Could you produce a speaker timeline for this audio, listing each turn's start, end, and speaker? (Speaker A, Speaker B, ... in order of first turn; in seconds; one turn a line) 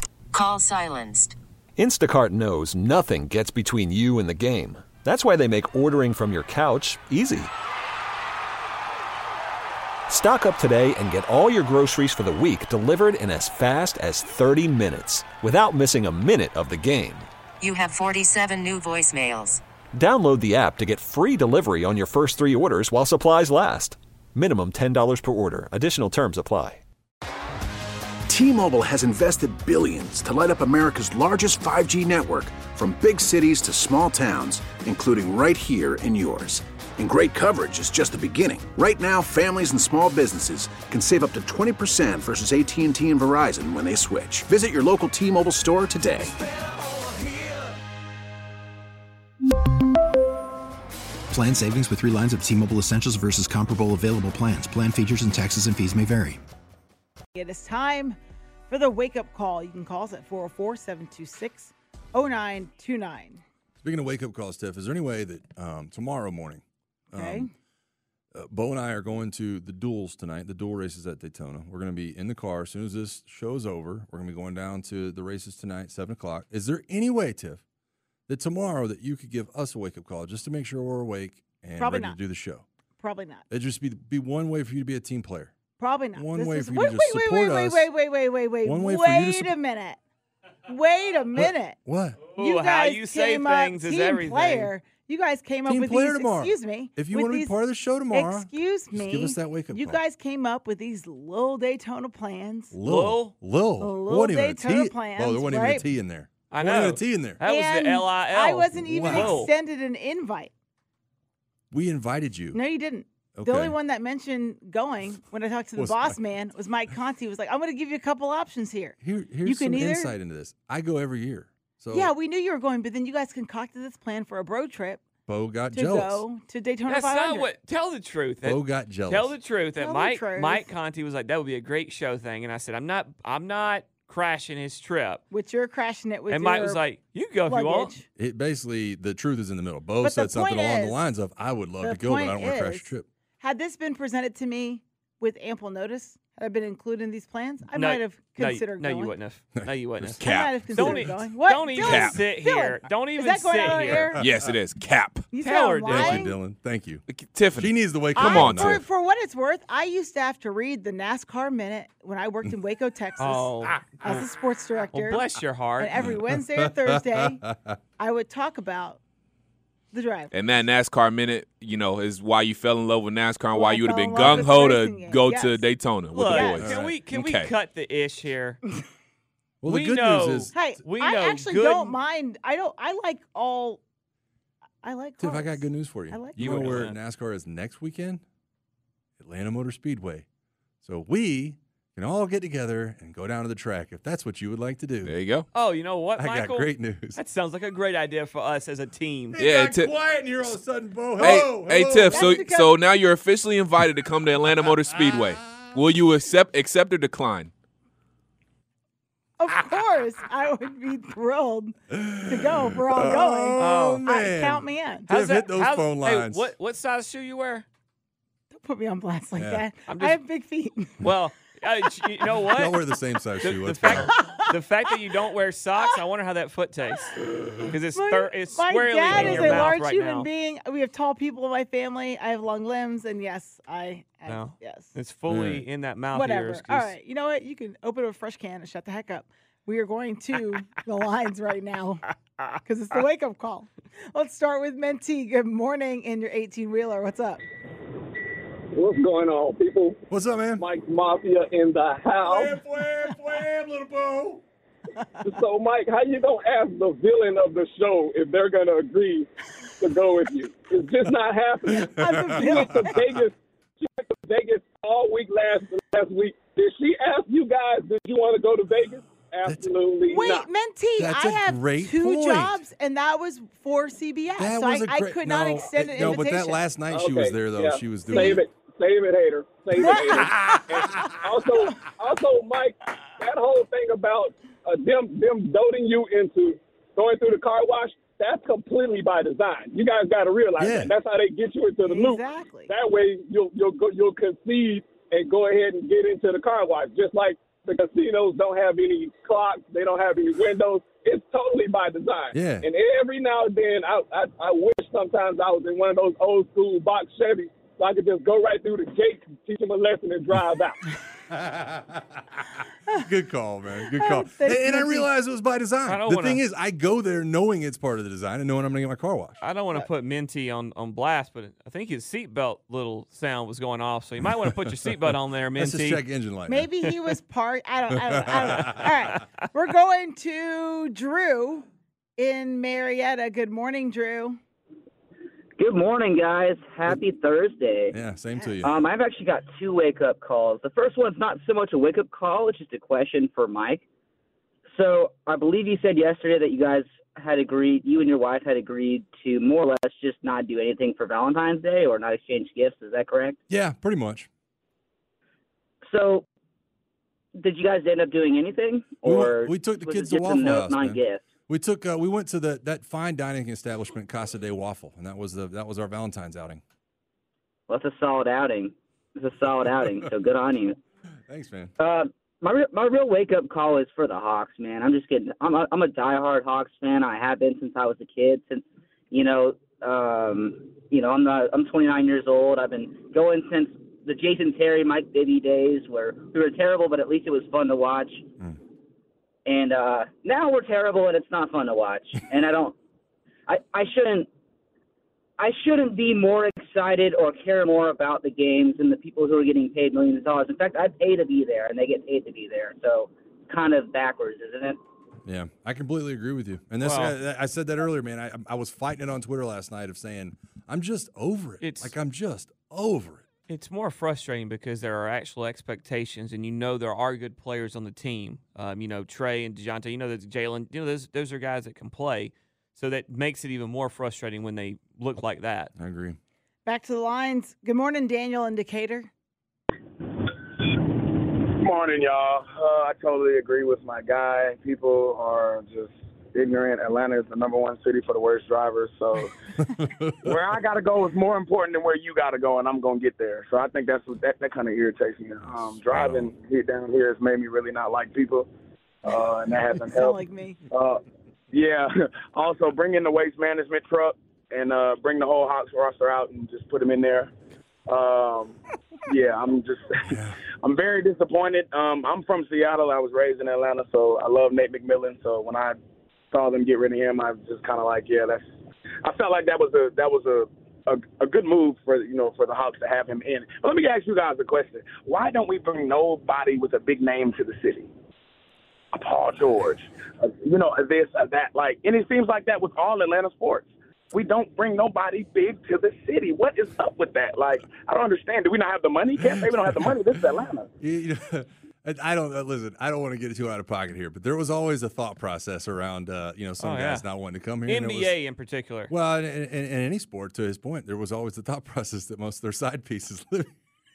Speaker A: 0.3-1.3
Speaker B: 1.8-7.5
Speaker B: 10.1-17.3
Speaker A: 17.6-19.6
Speaker B: 20.0-26.8
Speaker C: 28.3-46.3
Speaker D: 51.3-56.4
Speaker E: 57.3-58.2
Speaker E: 58.7-63.4
Speaker F: 63.8-67.5
Speaker E: 67.1-67.5
Speaker F: 68.3-77.6
Speaker F: 78.3-82.7
Speaker E: 81.8-82.2
Speaker E: 83.0-83.5
Speaker F: 83.5-85.5
Speaker E: 85.8-90.0
Speaker F: 86.2-87.9
Speaker F: 88.7-89.5
Speaker E: 90.7-91.8
Speaker F: 91.4-92.3
Speaker G: 92.3-94.7
Speaker E: 92.4-102.7
Speaker F: 95.7-100.0
Speaker F: 102.7-107.4
Speaker G: 102.8-103.3
Speaker E: 103.8-105.9
Speaker G: 106.5-109.5
Speaker E: 107.4-110.5
Speaker F: 108.8-109.5
Speaker F: 111.7-112.6
Speaker E: 112.5-120.2
Speaker F: 113.4-113.8
Speaker F: 115.8-116.2
Speaker F: 119.0-122.1
Speaker E: 121.9-125.0
Speaker F: 125.3-126.3
Speaker E: 125.7-127.5
Speaker G: 126.9-135.2
Speaker F: 128.4-129.4
Speaker E: 129.8-130.7
Speaker E: 135.3-136.8
Speaker G: 136.3-137.9
Speaker E: 137.5-138.1
Speaker F: 138.2-143.1
Speaker E: 140.0-141.0
Speaker E: 141.8-149.2
Speaker G: 147.8-154.2
Speaker F: 149.6-150.9
Speaker H: 150.2-151.2
Speaker E: 150.2-154.2
Speaker H: 151.8-152.2
Speaker F: 153.7-154.6
Speaker H: 154.2-155.3
Speaker E: 155.3-156.4
Speaker G: 155.4-156.3
Speaker F: 155.9-157.0
Speaker H: 157.1-158.7
Speaker F: 157.6-158.9
Speaker E: 158.2-165.3
Speaker G: 163.2-164.2
Speaker G: 164.9-166.0
Speaker E: 165.8-167.4
Speaker F: 165.9-167.7
Speaker E: 168.0-169.0
Speaker E: 169.9-170.3
Speaker H: 170.3-177.5
Speaker E: 173.5-175.7
Speaker G: 176.1-178.6
Speaker E: 176.2-176.7
Speaker F: 176.6-176.9
Speaker F: 179.6-180.6
Speaker G: 179.7-182.0
Speaker E: 180.5-183.8
Speaker E: 184.8-186.9
Speaker F: 185.2-188.2
Speaker G: 186.4-187.0
Speaker F: 189.2-190.2
Speaker F: 190.8-195.2
Speaker H: 195.1-195.5
Speaker G: 195.5-199.4
Speaker F: 196.2-197.2
Speaker F: 199.3-202.4
Speaker H: 199.4-199.9
Speaker H: 201.2-207.5
Speaker E: 201.9-202.8
Speaker F: 204.6-205.8
Speaker E: 209.4-215.1
Speaker F: 211.9-216.5
Speaker G: 213.6-214.0
Speaker G: 215.1-217.7
Speaker E: 218.5-221.0
Speaker F: 219.4-219.7
Speaker G: 219.9-220.2
Speaker G: 221.0-222.8
Speaker F: 222.5-224.2
Speaker G: 223.4-227.1
Speaker E: 223.9-224.5
Speaker G: 227.7-230.3
Speaker E: 227.9-234.9
Speaker F: 229.1-229.8
Speaker G: 234.3-236.9
Speaker F: 235.3-235.7
Speaker E: 236.1-247.4
Speaker I: 248.8-250.0
Speaker F: 250.1-250.7
Speaker I: 250.6-252.5
Speaker F: 252.2-254.4
Speaker I: 255.3-259.3
Speaker I: 259.8-261.8
Speaker E: 261.8-263.0
Speaker F: 261.8-263.2
Speaker I: 262.5-270.4
Speaker F: 269.4-269.7
Speaker E: 270.1-276.6
Speaker F: 271.0-272.6
Speaker F: 274.4-278.5
Speaker I: 276.9-310.8
Speaker E: 278.1-278.4
Speaker E: 279.8-280.9
Speaker F: 280.3-281.1
Speaker F: 290.6-290.9
Speaker E: 291.9-292.7
Speaker F: 302.3-302.7
Speaker F: 311.3-312.4
Speaker F: 312.9-319.4
Speaker E: 313.9-315.1
Speaker G: 315.9-316.4
Speaker G: 319.4-326.0
Speaker F: 325.6-326.7
Speaker E: 326.5-331.7
Speaker F: 328.1-328.9
Speaker E: 332.2-334.4
Speaker J: 335.6-337.9
Speaker F: 337.9-338.7
Speaker J: 338.6-343.8
Speaker J: 344.7-353.4
Speaker F: 353.5-354.3
Speaker J: 355.9-356.3
Speaker J: 357.4-361.2
Speaker F: 359.1-366.6
Speaker C: 359.6-360.3
Speaker J: 367.7-370.8
Speaker C: 369.4-370.0
Speaker F: 371.3-371.7
Speaker J: 371.8-388.3
Speaker J: 389.5-392.8
Speaker J: 393.5-394.3
Speaker J: 395.4-404.8
Speaker F: 405.3-413.2
Speaker G: 406.8-407.2
Speaker G: 411.6-411.9
Speaker G: 413.5-425.7
Speaker F: 425.8-426.2
Speaker E: 426.6-429.1
Speaker I: 431.6-439.3
Speaker F: 439.6-440.3
Speaker I: 440.2-448.5
Speaker F: 445.4-446.3
Speaker I: 449.0-450.2
Speaker E: 449.9-450.6
Speaker I: 450.7-451.0
Speaker I: 451.5-457.3
Speaker I: 457.9-458.6
Speaker I: 459.1-465.8
Speaker F: 460.1-460.4
Speaker I: 466.3-468.4
Speaker I: 469.0-477.9
Speaker I: 478.9-490.7
Speaker F: 489.1-498.2
Speaker G: 496.6-497.1
Speaker G: 497.7-498.9
Speaker F: 498.9-503.5